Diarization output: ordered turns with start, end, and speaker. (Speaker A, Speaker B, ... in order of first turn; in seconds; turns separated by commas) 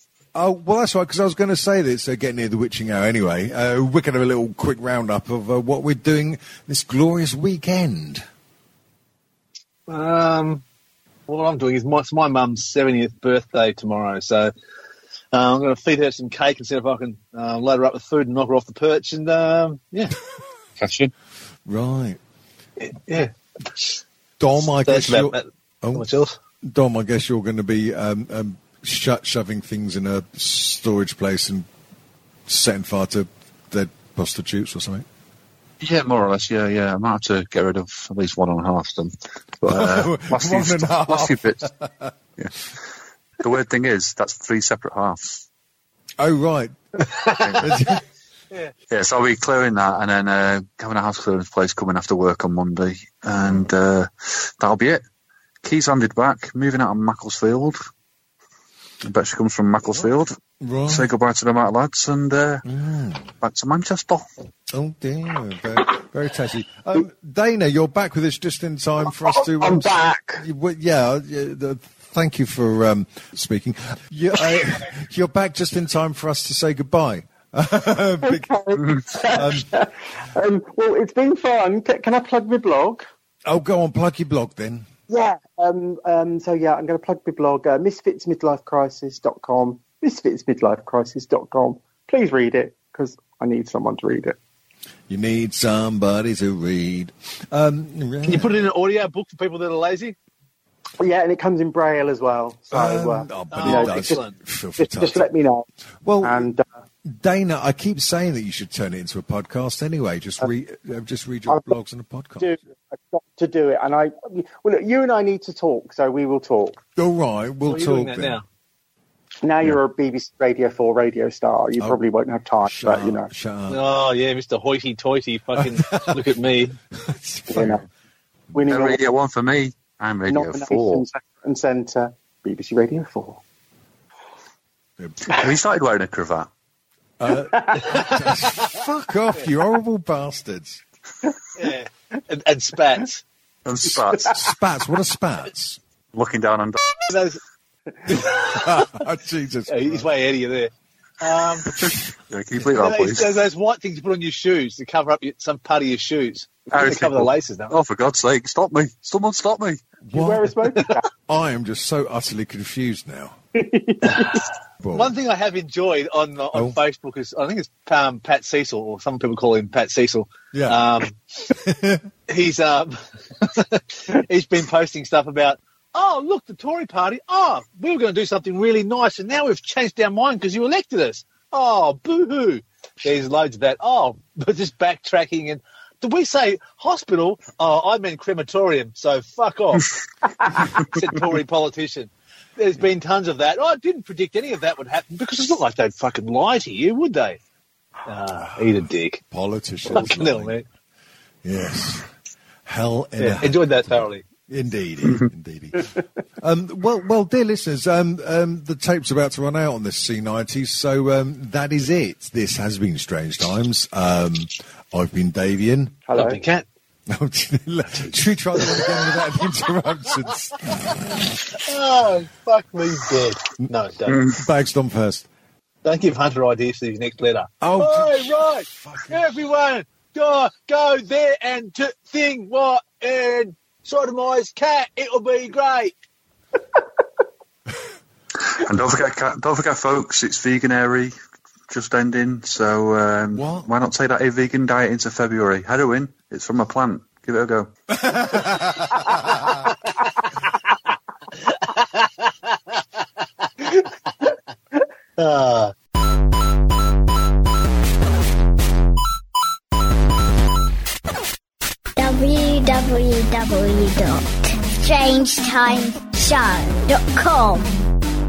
Speaker A: 0.3-8.2, Speaker B: 9.9-10.6, Speaker B: 11.3-14.5, Speaker B: 15.3-20.1, Speaker C: 20.8-21.1, Speaker A: 21.6-22.2, Speaker B: 22.8-24.0, Speaker A: 24.4-26.1, Speaker B: 24.8-26.4, Speaker A: 26.6-31.6, Speaker A: 32.5-35.0, Speaker C: 35.8-41.7, Speaker A: 39.6-42.1, Speaker C: 43.4-45.4, Speaker A: 46.2-46.7, Speaker B: 47.1-47.8, Speaker C: 47.4-47.7, Speaker A: 47.6-48.0, Speaker C: 48.9-55.0, Speaker A: 53.4-53.7, Speaker C: 55.6-57.8, Speaker C: 59.0-62.6, Speaker A: 60.6-61.1, Speaker A: 62.6-63.3, Speaker C: 63.4-64.2, Speaker A: 64.7-78.6, Speaker D: 69.2-70.4, Speaker D: 78.2-83.0, Speaker A: 79.2-79.7, Speaker A: 83.5-84.9, Speaker D: 85.1-94.4, Speaker A: 95.1-98.7, Speaker B: 98.2-100.2, Speaker D: 101.0-104.2, Speaker A: 102.7-105.3, Speaker B: 103.5-104.4, Speaker D: 104.8-105.7, Speaker A: 106.0-106.5, Speaker D: 106.2-106.6, Speaker A: 107.0-112.5, Speaker D: 111.5-111.7, Speaker D: 112.4-116.8, Speaker A: 117.0-118.4, Speaker B: 117.7-118.4, Speaker D: 119.4-123.3, Speaker A: 122.6-123.8, Speaker B: 123.7-126.8, Speaker A: 125.5-126.2, Speaker A: 126.9-127.9, Speaker D: 128.5-129.0, Speaker C: 128.7-131.0, Speaker D: 130.3-133.4, Speaker A: 135.0-135.3, Speaker C: 135.2-136.5, Speaker A: 137.2-140.8, Speaker D: 137.5-138.1, Speaker B: 137.8-138.4, Speaker B: 141.5-143.2, Speaker C: 143.6-144.4, Speaker A: 144.3-145.8, Speaker C: 146.1-147.0, Speaker B: 147.1-147.4, Speaker A: 148.1-150.0, Speaker B: 148.2-148.8, Speaker B: 149.7-151.7, Speaker C: 152.3-153.3, Speaker B: 152.7-157.7, Speaker C: 156.7-159.8, Speaker A: 160.0-160.5, Speaker D: 160.1-161.1, Speaker A: 161.3-163.3, Speaker D: 163.6-164.4, Speaker B: 164.0-164.4, Speaker A: 164.8-165.1, Speaker B: 164.9-171.2, Speaker A: 166.5-166.8, Speaker A: 170.5-170.8, Speaker A: 171.5-172.1, Speaker B: 172.3-189.9, Speaker B: 190.4-197.4, Speaker B: 198.1-199.2, Speaker A: 199.3-200.6, Speaker B: 199.9-200.6, Speaker A: 201.4-202.1, Speaker A: 202.7-216.0, Speaker B: 203.2-204.2, Speaker D: 216.1-216.4, Speaker B: 216.1-216.7, Speaker A: 217.1-221.2, Speaker B: 221.5-224.3, Speaker A: 224.3-225.3, Speaker B: 225.8-235.9, Speaker A: 227.6-229.3, Speaker C: 238.4-241.1, Speaker C: 241.7-247.7, Speaker A: 243.3-243.7, Speaker A: 247.9-249.6, Speaker B: 251.4-252.3, Speaker B: 253.6-254.3, Speaker B: 255.2-255.7, Speaker E: 261.9-267.9